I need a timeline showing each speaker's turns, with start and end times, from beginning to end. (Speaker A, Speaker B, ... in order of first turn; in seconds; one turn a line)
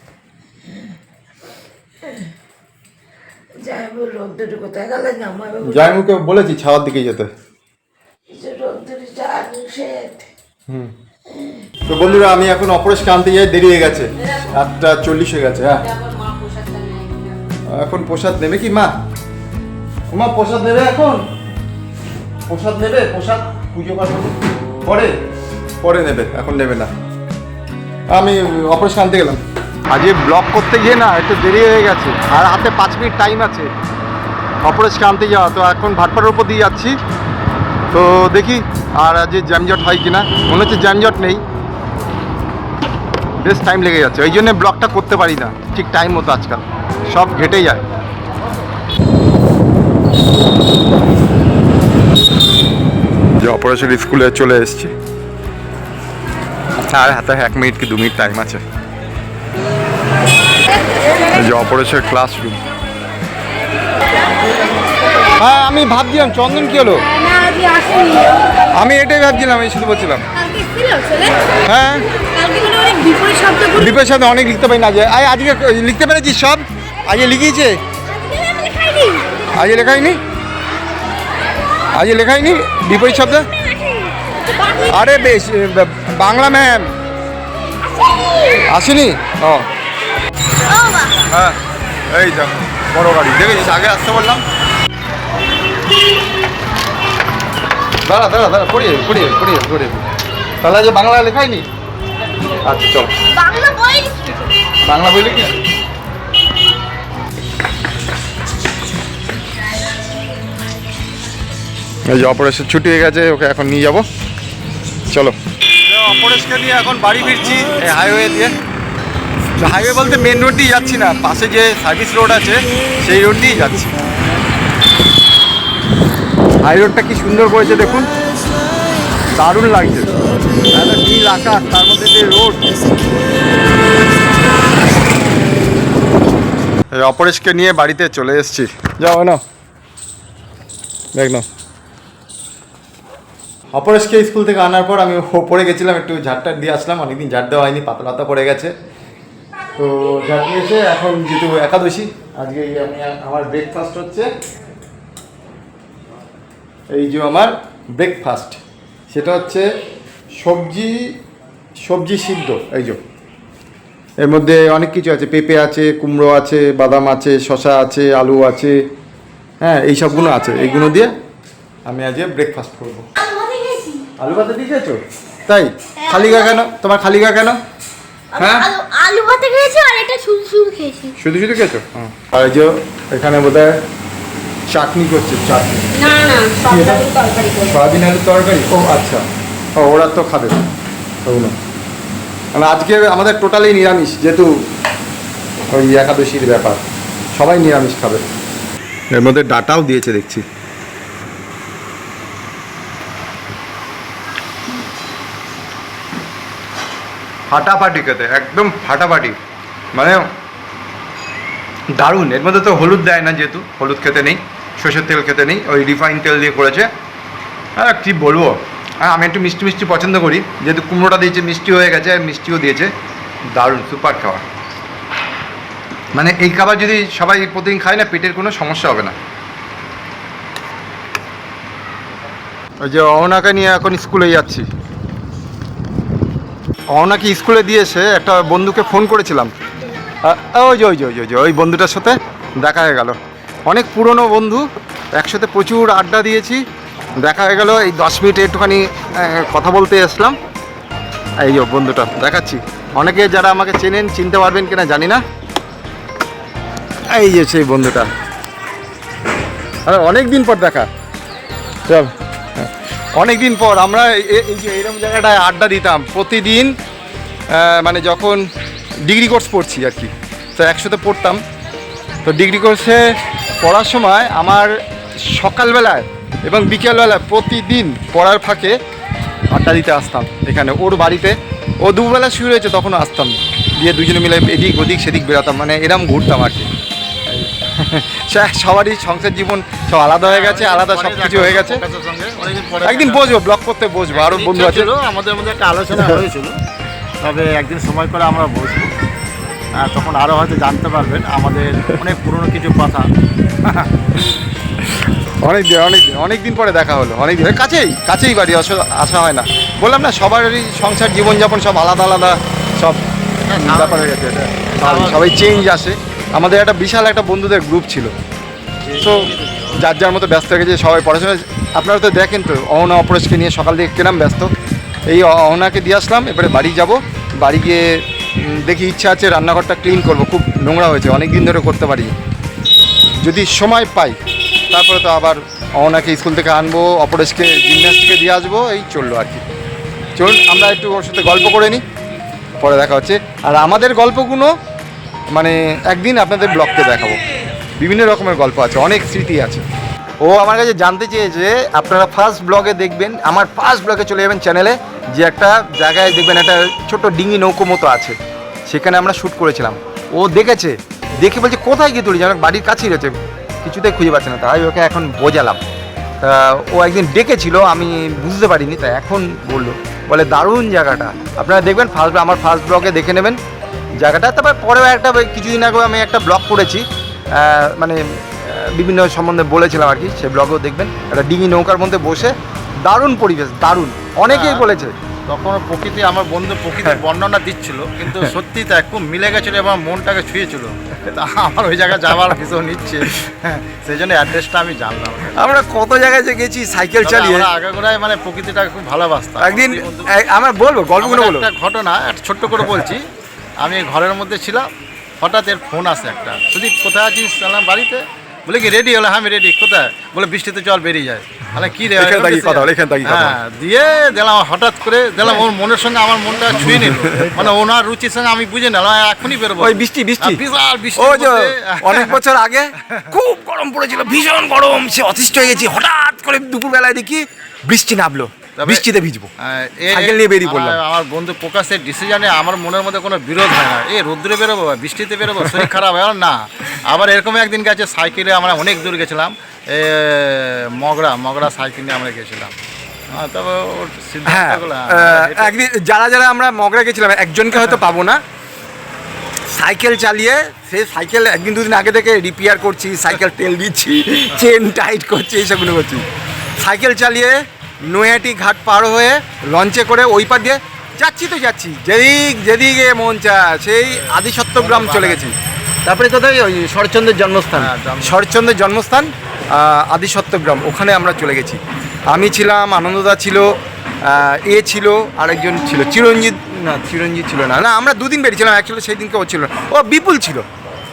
Speaker A: 3.6-5.6
Speaker B: 5.6-7.3
Speaker A: 8.3-10.3
Speaker B: 11.9-15.9
Speaker C: 15.9-17.4
Speaker B: 17.7-18.9
Speaker B: 20.1-21.2
Speaker B: 22.5-25.1
Speaker B: 25.8-26.9
Speaker B: 28.1-33.7
Speaker B: 34.6-37.0
Speaker B: 37.9-41.4
Speaker B: 43.4-47.8
Speaker B: 53.4-54.9
Speaker B: 56.8-58.6
Speaker B: 61.2-62.6
Speaker B: 65.4-67.0
Speaker C: 67.5-68.3
Speaker B: 68.7-70.2
Speaker C: 70.5-71.3
Speaker B: 71.7-72.1
Speaker C: 72.3-73.7
Speaker B: 73.6-77.8
Speaker C: 78.2-79.3
Speaker B: 79.5-80.2
Speaker B: 81.9-83.5
Speaker B: 84.7-86.9
Speaker C: 88.0-88.6
Speaker B: 88.5-89.7
Speaker C: 90.7-91.2
Speaker B: 91.2-91.6
Speaker B: 92.1-94.4
Speaker B: 98.0-100.0
Speaker B: 100.6-101.7
Speaker B: 102.6-103.2
Speaker C: 103.3-104.5
Speaker B: 104.8-105.6
Speaker B: 112.0-114.0
Speaker B: 115.1-118.5
Speaker B: 119.6-124.0
Speaker B: 126.6-128.1
Speaker B: 129.3-130.1
Speaker B: 130.7-132.7
Speaker B: 136.9-139.4
Speaker B: 141.1-141.4
Speaker B: 143.7-148.7
Speaker B: 149.8-154.3
Speaker B: 156.9-159.7
Speaker B: 160.3-161.1
Speaker B: 161.8-163.0
Speaker B: 164.2-168.8
Speaker B: 169.6-171.1
Speaker B: 171.8-173.1
Speaker C: 173.2-174.1
Speaker B: 174.2-177.6
Speaker B: 178.3-178.7
Speaker C: 178.3-181.1
Speaker B: 181.1-183.8
Speaker B: 184.7-189.2
Speaker C: 186.0-187.7
Speaker B: 189.8-190.6
Speaker B: 191.2-191.5
Speaker B: 192.5-194.5
Speaker B: 195.7-196.8
Speaker B: 197.3-198.2
Speaker B: 199.1-200.4
Speaker B: 207.5-209.4
Speaker B: 209.9-210.3
Speaker B: 211.9-216.9
Speaker B: 217.8-222.9
Speaker B: 223.5-224.4
Speaker B: 226.1-229.2
Speaker B: 232.8-234.7
Speaker B: 236.9-239.5
Speaker B: 240.2-243.2
Speaker B: 243.7-246.6
Speaker B: 247.2-250.3
Speaker B: 251.4-255.2
Speaker B: 257.1-258.1
Speaker B: 259.9-260.9
Speaker B: 261.9-266.7
Speaker B: 267.5-268.4
Speaker B: 269.0-271.4
Speaker B: 272.2-273.0
Speaker B: 273.6-274.7
Speaker B: 275.2-278.8
Speaker B: 279.5-286.7
Speaker B: 287.3-291.8
Speaker D: 290.2-293.4
Speaker B: 292.8-294.9
Speaker D: 294.1-296.6
Speaker D: 297.2-298.9
Speaker D: 299.8-303.1
Speaker B: 304.2-313.0
Speaker D: 313.4-315.3
Speaker B: 313.6-318.1
Speaker D: 318.8-319.8
Speaker B: 319.0-324.5
Speaker B: 325.1-327.8
Speaker B: 328.4-332.1
Speaker B: 333.2-334.2
Speaker B: 334.7-339.4
Speaker B: 340.2-341.8
Speaker B: 342.6-344.5
Speaker B: 345.3-347.2
Speaker B: 347.8-349.6
Speaker B: 350.2-365.6
Speaker B: 366.2-373.4
Speaker B: 374.0-384.9
Speaker D: 384.2-384.7
Speaker D: 385.3-395.5
Speaker B: 395.3-397.5
Speaker D: 397.0-400.2
Speaker B: 399.4-401.5
Speaker D: 401.0-403.1
Speaker D: 403.6-422.2
Speaker B: 411.9-413.4
Speaker B: 416.7-417.5
Speaker B: 419.6-420.4
Speaker B: 420.9-429.3
Speaker D: 422.8-423.1
Speaker D: 428.6-428.9
Speaker D: 429.4-442.5
Speaker B: 429.9-430.8
Speaker D: 443.1-445.6
Speaker B: 444.2-448.2
Speaker B: 449.5-456.1
Speaker B: 456.6-480.4
Speaker D: 464.1-465.3
Speaker D: 467.6-468.2